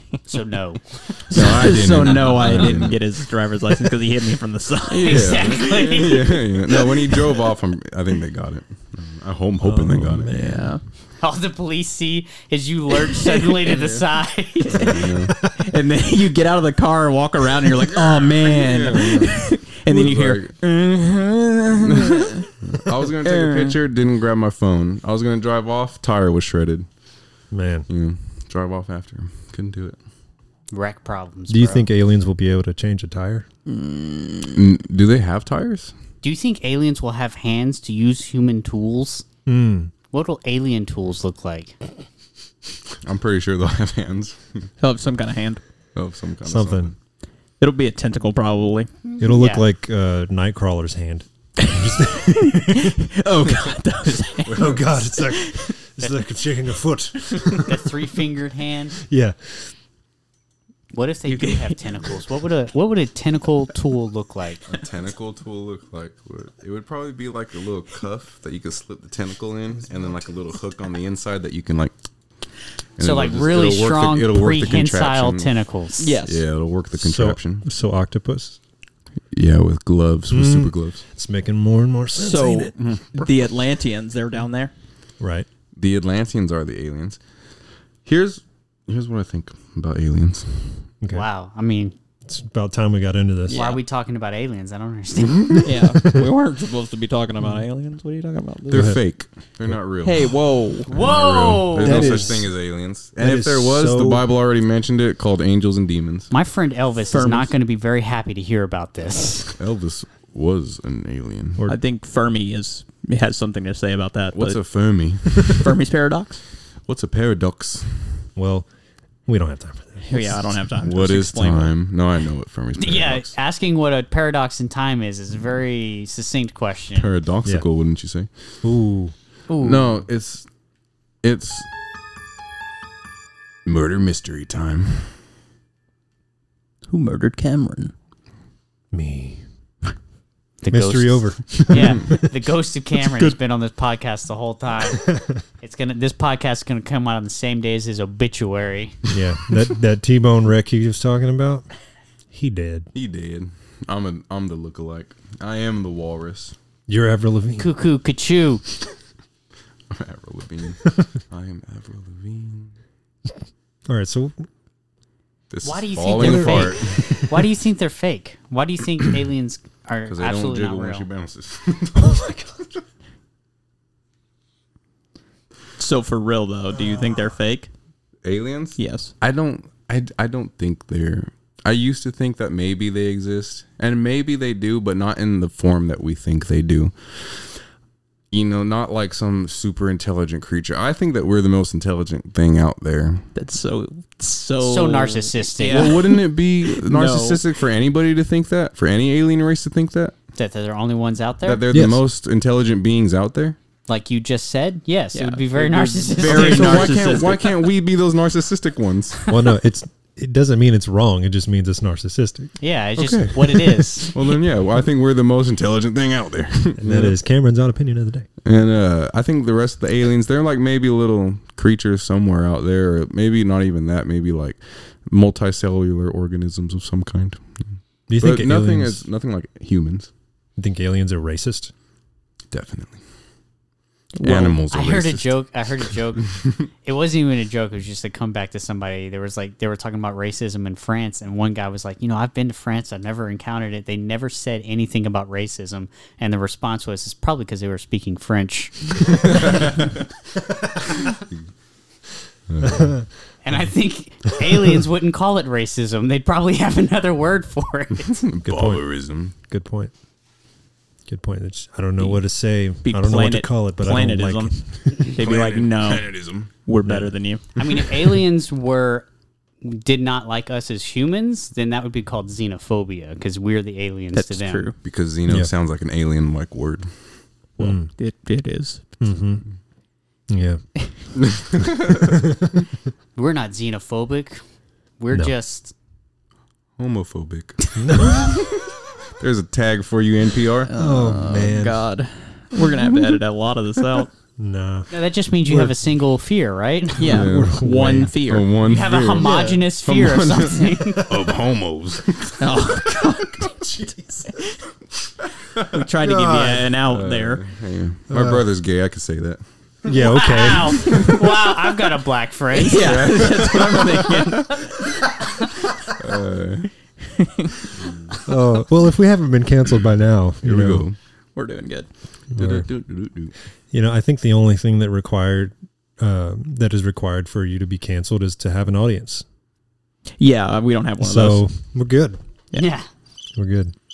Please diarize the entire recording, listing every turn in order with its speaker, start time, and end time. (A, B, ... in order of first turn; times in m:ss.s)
0:00.3-0:02.9 A
0:01.3-0:05.6 B
0:01.3-0:03.0 C
0:04.9-0:10.3 C
0:05.0-0:06.9 A
0:09.6-0:10.7 D
0:10.3-0:10.8 B
0:11.2-0:15.1 A
0:13.1-0:13.7 B
0:13.7-0:14.0 C
0:14.7-0:15.4 C
0:14.7-0:23.8 B
0:18.1-0:20.5 C
0:21.8-0:26.9 C
0:27.5-0:27.9 D
0:27.9-0:30.0 C
0:30.7-0:31.9 A
0:31.5-0:33.4 D
0:33.6-0:34.6 B
0:34.5-0:35.9 C
0:36.2-0:39.2 A
0:39.4-0:39.9 D
0:40.1-0:41.8 A
0:43.0-0:44.7 C
0:44.8-0:45.6 B
0:45.9-0:46.9 C
0:46.4-0:46.9 D
0:47.6-0:48.9 B
0:49.2-0:53.0 D
0:49.3-0:49.6 A
0:51.6-0:55.7 B
0:54.5-0:54.8 C
0:54.5-0:57.8 D
0:57.5-0:59.0 A
0:59.0-0:59.7 D
1:00.9-1:04.7 A
1:01.3-1:02.2 B
1:04.7-1:11.9 C
1:13.0-1:15.5 C
1:13.0-1:16.1 A
1:16.0-1:16.4 B
1:16.2-1:17.6 C
1:17.0-1:18.6 D
1:19.3-1:21.0 C
1:20.3-1:22.7 D
1:22.2-1:24.7 B
1:22.8-1:23.1 C
1:25.2-1:25.5 D
1:25.8-1:27.2 C
1:28.0-1:30.8 C
1:31.1-1:31.9 A
1:32.2-1:33.6 D
1:33.5-1:33.8 B
1:33.5-1:35.7 A
1:35.6-1:39.0 B
1:35.9-1:36.2 D
1:38.7-1:40.3 C
1:38.7-1:39.0 D
1:40.0-1:40.9 B
1:40.9-1:46.3 C
1:40.9-1:42.3 A
1:41.8-1:42.5 D
1:43.2-1:44.2 D
1:46.3-1:49.6 A
1:47.1-1:47.5 B
1:49.6-1:51.6 C
1:51.7-1:54.6 B
1:54.3-1:55.7 C
1:55.4-1:56.4 B
1:56.9-1:58.2 C
1:58.4-1:58.7 D
1:59.3-2:00.5 D
2:00.0-2:01.7 B
2:00.8-2:03.3 C
2:02.8-2:07.1 A
2:07.0-2:08.3 C
2:08.6-2:09.1 D
2:09.5-2:09.9 A
2:09.6-2:10.5 C
2:11.2-2:11.7 C
2:13.6-2:15.1 C
2:16.9-2:17.9 B
2:18.9-2:19.4 D
2:20.6-2:29.0 A
2:20.7-2:22.1 D
2:29.1-2:31.7 D
2:32.3-2:32.9 D
2:32.9-2:36.5 C
2:36.9-2:37.7 D
2:37.6-2:38.6 A
2:39.9-2:42.7 C
2:43.9-2:44.4 D
2:45.5-2:47.2 C
2:45.6-2:51.1 A
2:46.1-2:47.2 D
2:50.1-2:52.2 C
2:51.9-2:52.6 D
2:55.8-2:57.7 B
2:58.2-3:07.5 C
2:58.8-2:59.1 B
3:08.3-3:13.2 C
3:13.3-3:17.4 B
3:14.6-3:16.0 A
3:15.7-3:20.1 C
3:20.4-3:21.6 A
3:21.4-3:23.6 C
3:21.7-3:22.0 D
3:23.9-3:27.0 A
3:25.1-3:27.7 B
3:26.2-3:29.2 C
3:29.3-3:32.5 D
3:32.6-3:34.1 A
3:33.0-3:37.2 C
3:36.8-3:38.2 D
3:38.4-3:47.4 C
3:48.1-3:49.0 D
3:48.2-3:50.1 C
3:50.6-3:51.7 D
3:52.5-3:53.0 C
3:54.1-3:54.6 B
3:54.2-3:55.4 C
3:54.7-3:56.3 A
3:56.8-4:09.6 A
4:09.2-4:09.8 C
4:12.5-4:12.9 C
4:12.7-4:13.0 D
4:13.4-4:18.2 A
4:18.2-4:19.3 C
4:18.4-4:18.8 D
4:19.4-4:19.9 D
4:21.1-4:24.5 D
4:22.8-4:27.4 B
4:25.2-4:26.5 C
4:26.8-4:27.1 D
4:27.6-4:29.0 A
4:29.6-4:34.7 A
4:34.1-4:34.8 B
4:34.8-4:36.9 C
4:37.6-4:37.9 D
4:37.6-4:38.8 B
4:39.0-4:39.4 D
4:40.3-4:40.6 D
4:41.2-4:42.2 C
4:42.0-4:42.6 D
4:43.2-4:44.4 A
4:45.0-4:45.7 A
4:46.8-4:48.5 C
4:47.8-4:48.3 D
4:49.2-4:50.7 C
4:50.6-4:54.1 B
4:50.7-4:51.8 D
4:54.4-4:54.9 D
4:54.9-4:57.2 A
4:55.4-4:55.7 D
4:57.0-4:58.5 B
4:57.0-4:57.6 C
4:57.1-4:58.2 D
4:58.2-5:02.7 C
4:58.6-5:01.1 A
4:59.2-4:59.5 B
5:02.4-5:03.6 B
5:05.7-5:07.4 B
5:06.0-5:06.7 D
5:06.9-5:09.4 C
5:08.1-5:08.4 D
5:09.8-5:11.1 D
5:09.9-5:13.1 A
5:10.8-5:11.2 C
5:12.5-5:14.7 B
5:12.7-5:14.7 C
5:15.8-5:16.7 C
5:17.2-5:17.5 B
5:17.8-5:18.2 C
5:18.2-5:20.8 D
5:20.4-5:21.0 C
5:21.4-5:21.9 B
5:22.3-5:22.6 D
5:22.3-5:23.3 C
5:23.7-5:29.2 D
5:30.2-5:31.4 B
5:31.0-5:32.2 D
5:32.6-5:32.8 A
5:33.4-5:33.7 D